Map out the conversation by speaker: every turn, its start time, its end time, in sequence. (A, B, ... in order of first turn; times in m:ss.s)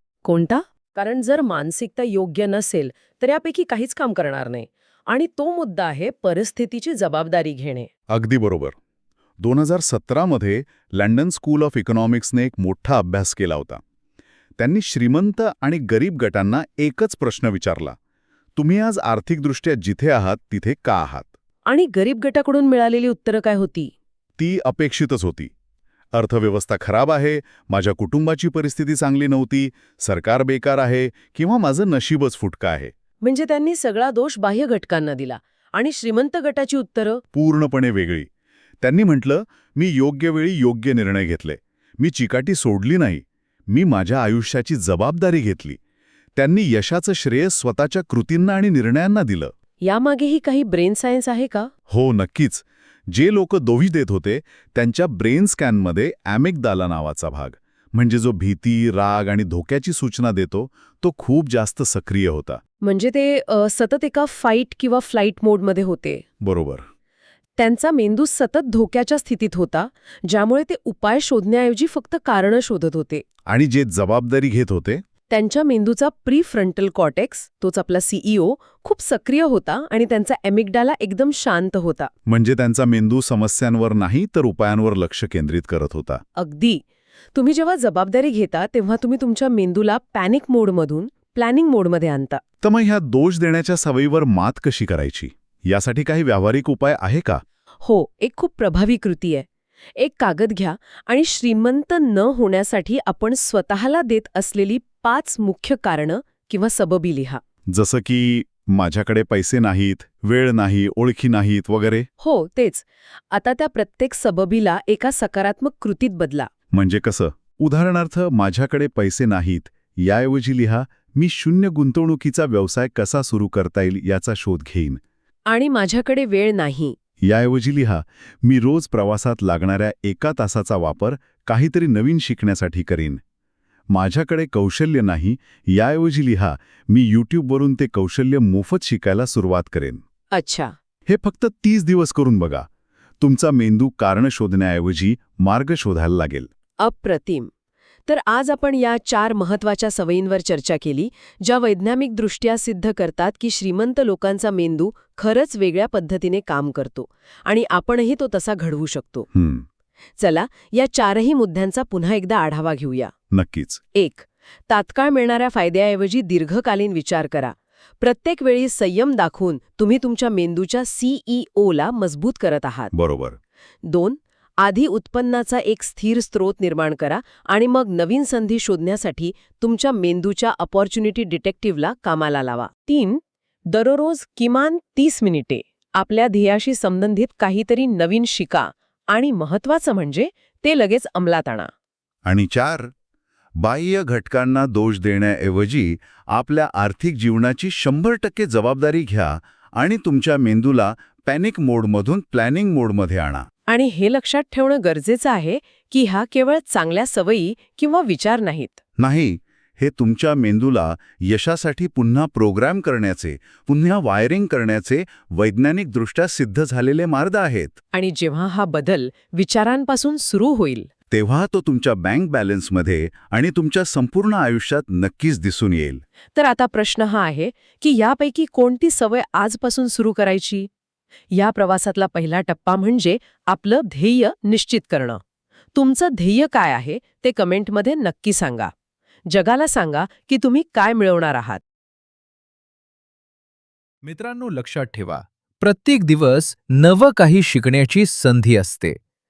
0:00.2-0:07.9 A
0:08.1-0:08.8 B
0:09.4-0:13.8 B
0:14.6-0:18.0 B
0:18.6-0:21.3 B
0:21.7-0:23.9 A
0:24.4-0:25.5 B
0:26.1-0:32.9 B
0:33.2-0:37.2 A
0:37.3-0:38.3 B
0:38.8-0:45.8 B
0:46.4-0:49.5 B
0:49.8-0:51.7 A
0:51.9-1:02.6 B
1:02.8-1:06.2 A
1:06.4-1:06.9 B
1:07.6-1:13.2 A
1:13.5-1:15.0 B
1:15.3-1:22.1 A
1:22.3-1:26.2 B
1:26.4-1:32.4 A
1:32.6-1:37.4 B
1:37.8-1:47.4 A
1:47.7-1:52.1 B
1:52.2-1:56.5 A
1:56.7-2:05.0 B
2:05.5-2:07.0 A
2:07.2-2:13.2 B
2:13.9-2:20.0 B
2:20.3-2:20.7 A
2:21.1-2:22.7 B
2:23.2-2:26.5 B
2:26.8-2:27.5 A
2:28.1-2:39.3 A
2:39.3-2:39.6 B
2:40.2-2:43.1 A
2:43.3-2:43.8 B
2:43.9-2:52.9 A
2:52.9-2:53.4 B
2:53.8-3:11.7 A
3:12.2-3:12.9 B
3:13.6-3:23.5 B
3:23.7-3:28.8 A
3:29.0-3:37.8 B
3:37.9-3:40.9 A
3:41.1-3:46.0 B
3:46.4-3:50.7 A
3:51.3-3:55.2 A
3:55.7-3:58.7 A
3:59.3-4:01.6 A
4:04.0-4:09.0 C